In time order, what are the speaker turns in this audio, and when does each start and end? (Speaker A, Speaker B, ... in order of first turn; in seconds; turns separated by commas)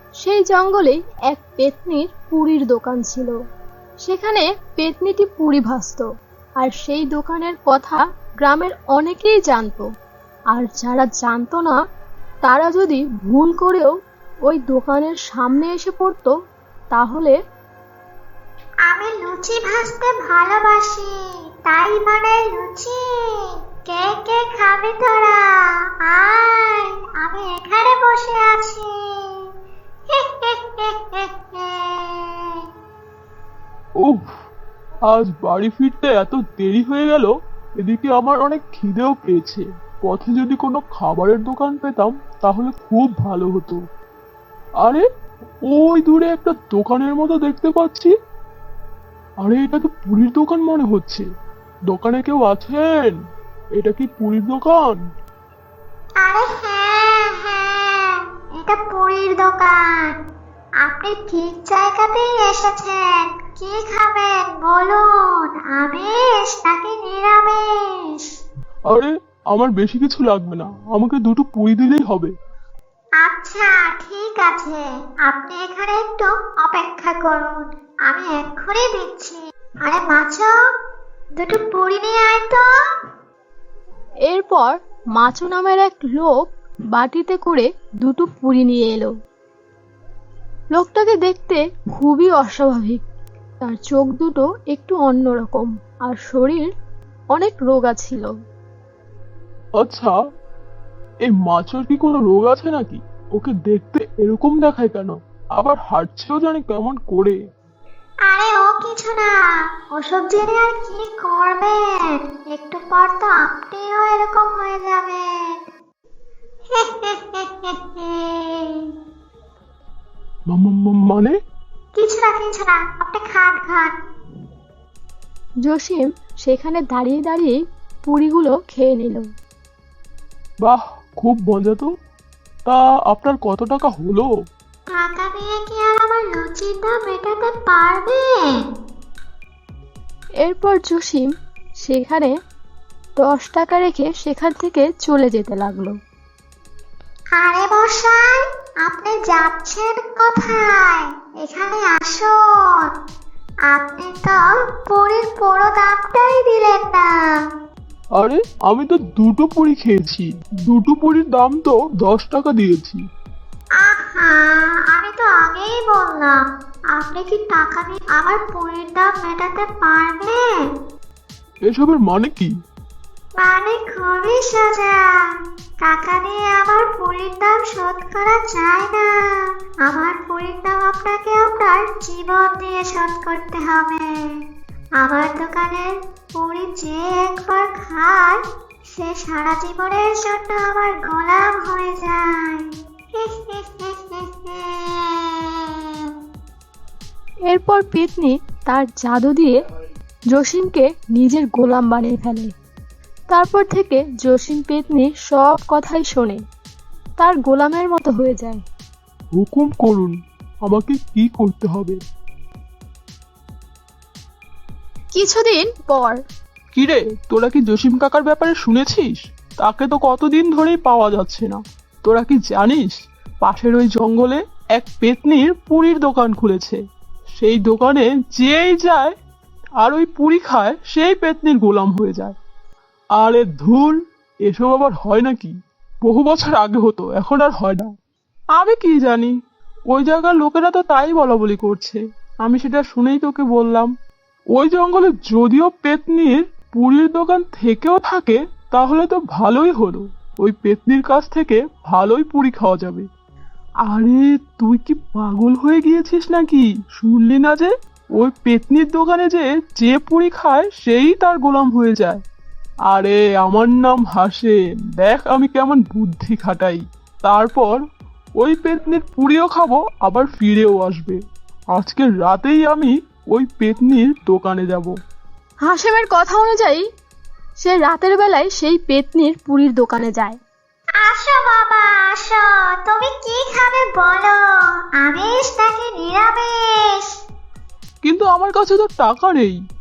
Speaker A: 0.2-3.3, Speaker A: 4.0-6.0, Speaker A: 6.6-9.8, Speaker A: 10.5-11.8, Speaker A: 12.4-13.9, Speaker A: 14.4-16.3, Speaker A: 16.9-17.3, Speaker B: 18.9-21.1, Speaker B: 21.7-25.4, Speaker B: 26.1-29.4, Speaker B: 30.1-32.6, Speaker C: 34.0-34.2, Speaker C: 35.1-43.8, Speaker C: 45.7-48.1, Speaker C: 49.4-51.2, Speaker C: 51.9-53.1, Speaker C: 53.8-55.0, Speaker B: 56.2-60.1, Speaker B: 60.8-68.2, Speaker C: 68.9-72.3, Speaker B: 73.2-80.5, Speaker B: 81.4-82.7, Speaker A: 84.3-89.1, Speaker A: 90.7-93.0, Speaker A: 93.6-96.7, Speaker A: 97.3-98.3, Speaker C: 99.8-100.1, Speaker C: 101.2-107.4, Speaker B: 108.3-109.4, Speaker B: 109.9-115.6, Speaker B: 116.7-118.9, Speaker C: 120.5-121.3, Speaker B: 121.9-123.9, Speaker A: 125.7-129.3, Speaker C: 130.6-131.9, Speaker C: 132.7-134.3, Speaker B: 134.9-138.6, Speaker A: 140.4-141.3, Speaker A: 141.8-142.3, Speaker A: 143.2-146.0, Speaker B: 147.3-152.9, Speaker B: 153.7-157.4, Speaker C: 158.2-163.0, Speaker B: 163.8-166.4, Speaker B: 166.9-170.6, Speaker C: 171.7-172.5, Speaker B: 173.4-175.0, Speaker B: 175.8-179.1, Speaker B: 179.8-184.4, Speaker B: 185.0-196.1, Speaker A: 197.5-199.6, Speaker A: 200.3-202.5, Speaker A: 203.3-206.4, Speaker A: 207.2-208.6, Speaker C: 209.3-212.0, Speaker A: 215.1-216.2, Speaker C: 216.7-226.8, Speaker C: 227.3-229.1, Speaker C: 229.8-232.3, Speaker C: 233.2-237.9, Speaker C: 238.5-239.3, Speaker C: 239.9-243.9, Speaker C: 244.5-253.1, Speaker C: 253.8-262.2, Speaker C: 262.9-267.8, Speaker C: 268.4-271.2, Speaker C: 271.7-274.9, Speaker A: 275.6-276.9, Speaker A: 277.6-280.4, Speaker B: 281.0-284.4, Speaker B: 285.0-287.1, Speaker C: 288.0-289.6